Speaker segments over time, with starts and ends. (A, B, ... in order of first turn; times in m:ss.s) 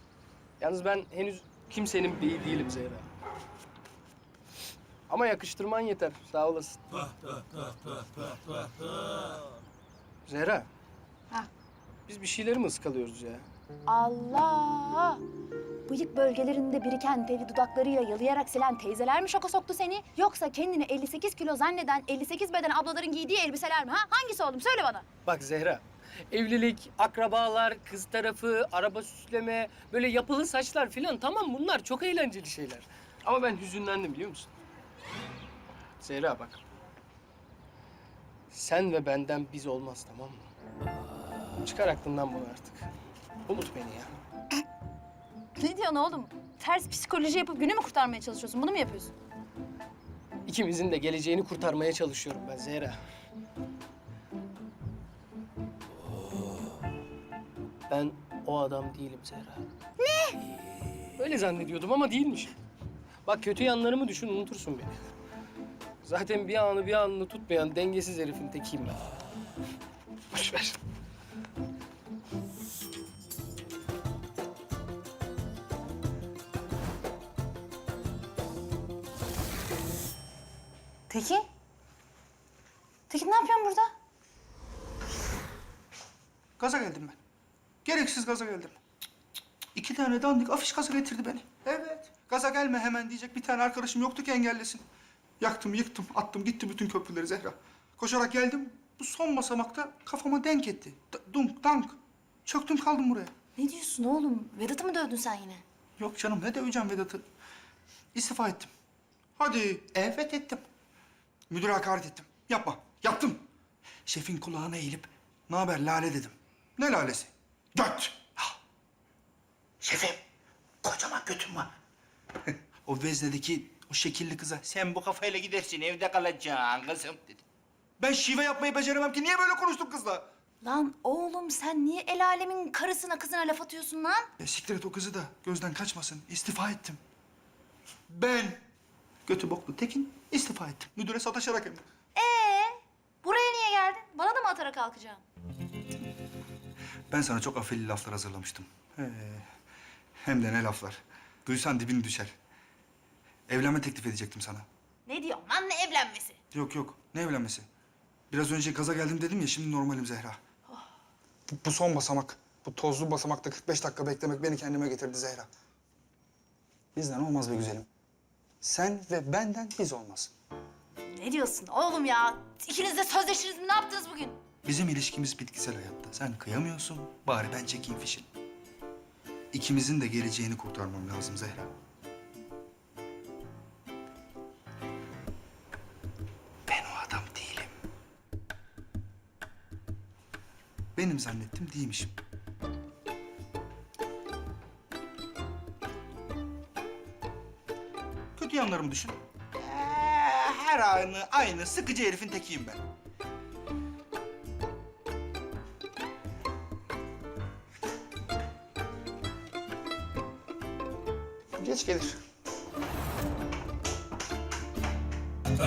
0:00.6-0:03.1 A
0:05.1-0:07.1 A
0:10.3-0:10.7 A
0:12.1-0:13.4 A
0:13.9-0:15.2 B
0:15.9-0:25.0 B
0:25.3-0:34.5 A
0:36.0-0:36.6 A
0:38.5-0:40.4 A
0:41.6-0:42.9 A
0:43.5-0:44.2 A
0:45.6-0:49.1 B
0:50.5-0:53.0 A
0:57.9-0:59.6 A
1:00.0-1:00.4 B
1:01.2-1:02.6 A
1:03.3-1:05.1 A
1:06.0-1:09.0 A
1:10.3-1:10.8 A
1:21.1-1:21.5 B
1:23.1-1:23.9 B
1:26.6-1:27.2 C
1:27.8-1:28.8 C
1:29.8-1:34.8 C
1:35.4-1:43.3 C
1:43.6-1:45.6 B
1:46.0-1:47.2 C
1:48.1-1:48.7 C
1:49.4-1:50.6 C
1:51.5-1:53.4 C
1:54.1-1:58.5 C
1:59.8-2:00.2 C
2:00.8-2:01.7 C
2:02.9-2:05.6 C
2:08.0-2:10.3 C
2:10.6-2:14.3 B
2:14.4-2:17.0 C
2:18.1-2:18.6 C
2:19.3-2:21.8 C
2:22.2-2:25.2 B
2:27.1-2:29.5 C
2:30.2-2:32.3 C
2:33.5-2:34.7 C
2:35.1-2:36.4 B
2:36.5-2:37.7 C
2:38.3-2:40.4 C
2:41.5-2:45.5 C
2:47.0-2:47.9 C
2:48.6-2:50.3 C
2:51.1-2:54.4 B
2:54.6-2:58.3 C
2:59.5-3:01.7 C
3:06.7-3:07.7 C
3:11.0-3:12.1 C
3:18.4-3:22.8 C
3:31.6-3:32.2 C